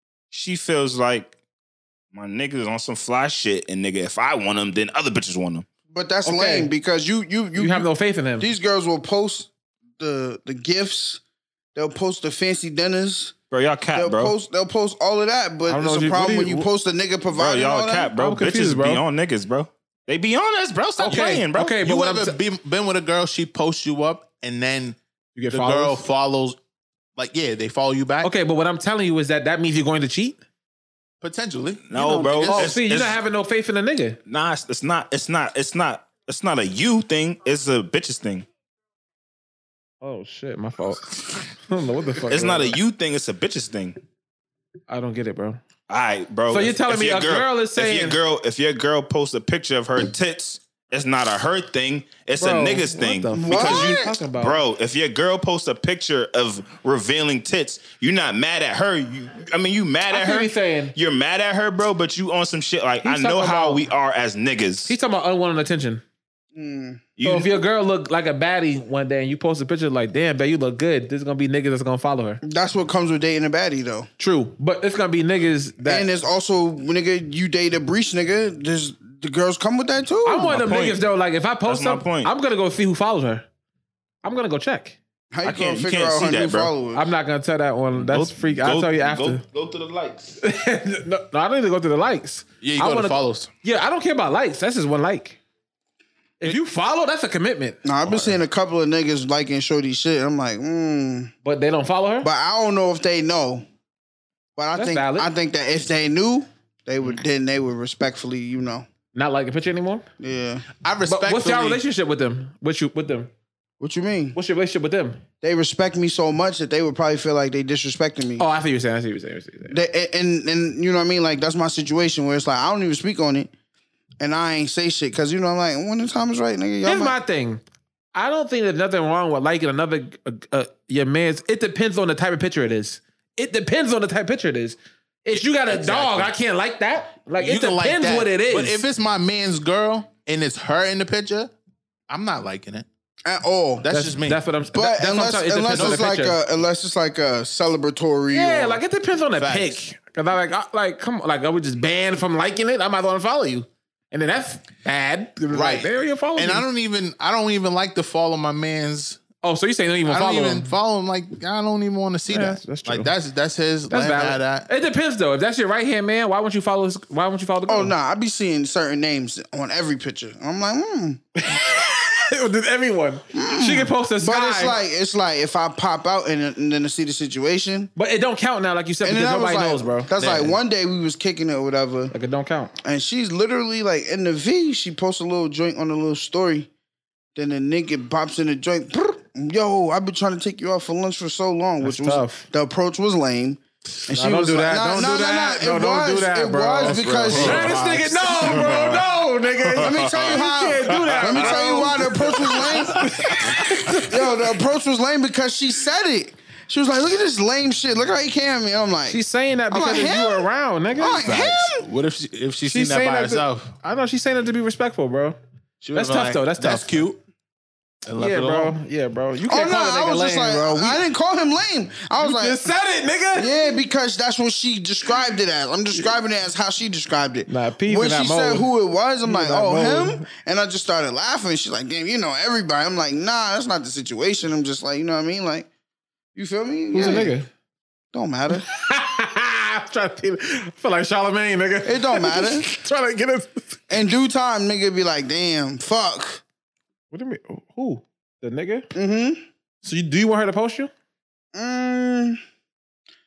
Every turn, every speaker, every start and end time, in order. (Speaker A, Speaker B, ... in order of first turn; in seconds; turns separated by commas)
Speaker A: 0.3-1.3, Speaker A: 2.1-5.7, Speaker B: 5.9-7.9, Speaker C: 6.2-6.7, Speaker C: 7.6-8.5, Speaker B: 8.4-11.2, Speaker B: 11.7-13.3, Speaker A: 13.5-14.3, Speaker B: 13.9-18.1, Speaker C: 15.7-16.7, Speaker A: 17.3-21.8, Speaker C: 18.1-19.0, Speaker C: 21.0-22.4, Speaker D: 21.0-25.0, Speaker C: 25.4-26.0, Speaker D: 25.5-26.6, Speaker D: 27.1-28.3, Speaker C: 28.2-30.4, Speaker D: 31.2-32.6, Speaker A: 31.9-33.2, Speaker B: 31.9-32.7, Speaker C: 32.5-34.2, Speaker A: 34.2-38.5, Speaker C: 40.0-42.8, Speaker A: 42.3-44.0, Speaker C: 44.9-45.6, Speaker A: 45.9-64.9, Speaker C: 46.5-48.2, Speaker C: 52.4-54.6, Speaker B: 53.3-54.0, Speaker C: 60.1-60.9, Speaker C: 63.0-63.8, Speaker C: 64.9-66.0, Speaker B: 66.5-67.0, Speaker A: 67.2-67.5, Speaker C: 67.2-72.4, Speaker B: 72.4-74.1, Speaker C: 74.2-76.1, Speaker B: 75.8-80.5, Speaker C: 80.2-83.5, Speaker A: 80.5-81.0, Speaker A: 81.7-82.3, Speaker C: 84.2-85.0, Speaker B: 85.3-87.1, Speaker A: 85.4-86.7, Speaker C: 86.9-89.4, Speaker A: 87.9-90.4, Speaker C: 90.4-95.4, Speaker D: 92.6-93.5, Speaker C: 96.4-97.8, Speaker B: 97.8-101.3, Speaker D: 98.1-98.4, Speaker C: 101.4-102.3, Speaker B: 102.2-103.6, Speaker B: 104.5-108.8, Speaker C: 104.8-105.3, Speaker C: 109.1-110.0, Speaker B: 110.2-110.7, Speaker D: 110.8-111.8, Speaker C: 111.1-113.3, Speaker B: 113.8-114.4, Speaker C: 114.3-115.2, Speaker B: 115.4-118.5, Speaker C: 118.4-119.8, Speaker B: 119.7-123.5, Speaker B: 124.2-127.2, Speaker C: 126.8-127.6, Speaker C: 128.1-138.8, Speaker D: 135.3-136.3, Speaker D: 137.4-141.5, Speaker D: 142.1-142.8, Speaker B: 143.2-143.9, Speaker D: 143.8-144.4, Speaker C: 143.9-146.4, Speaker B: 144.7-148.8, Speaker D: 145.7-146.0, Speaker C: 148.3-156.7, Speaker D: 149.3-149.8, Speaker D: 155.5-159.2, Speaker C: 159.4-160.7, Speaker D: 160.1-164.7, Speaker C: 162.3-163.1, Speaker C: 163.9-167.9, Speaker B: 167.7-171.2, Speaker C: 171.4-174.8, Speaker B: 173.3-177.9, Speaker C: 177.9-180.1, Speaker B: 179.0-182.1, Speaker D: 180.2-180.6, Speaker C: 182.1-182.7, Speaker B: 182.8-186.7, Speaker B: 187.3-197.8, Speaker C: 191.8-192.5, Speaker C: 194.0-204.2, Speaker D: 196.8-199.0, Speaker A: 198.4-199.1, Speaker B: 199.8-203.1, Speaker D: 201.5-201.8, Speaker B: 204.0-211.8, Speaker C: 209.1-211.3, Speaker D: 211.2-213.7, Speaker C: 212.6-215.4, Speaker D: 215.8-217.2, Speaker C: 215.9-217.0, Speaker D: 218.1-218.8, Speaker C: 218.2-221.0, Speaker B: 219.4-222.6, Speaker C: 222.2-223.5, Speaker B: 223.3-235.7, Speaker C: 227.5-228.7, Speaker C: 229.2-230.2, Speaker B: 236.3-237.3, Speaker C: 236.9-237.5, Speaker B: 238.1-238.7, Speaker C: 238.5-243.8, Speaker B: 241.8-242.7, Speaker B: 243.9-246.4, Speaker C: 247.1-248.9, Speaker B: 248.9-249.4, Speaker C: 249.8-250.9, Speaker B: 251.5-252.4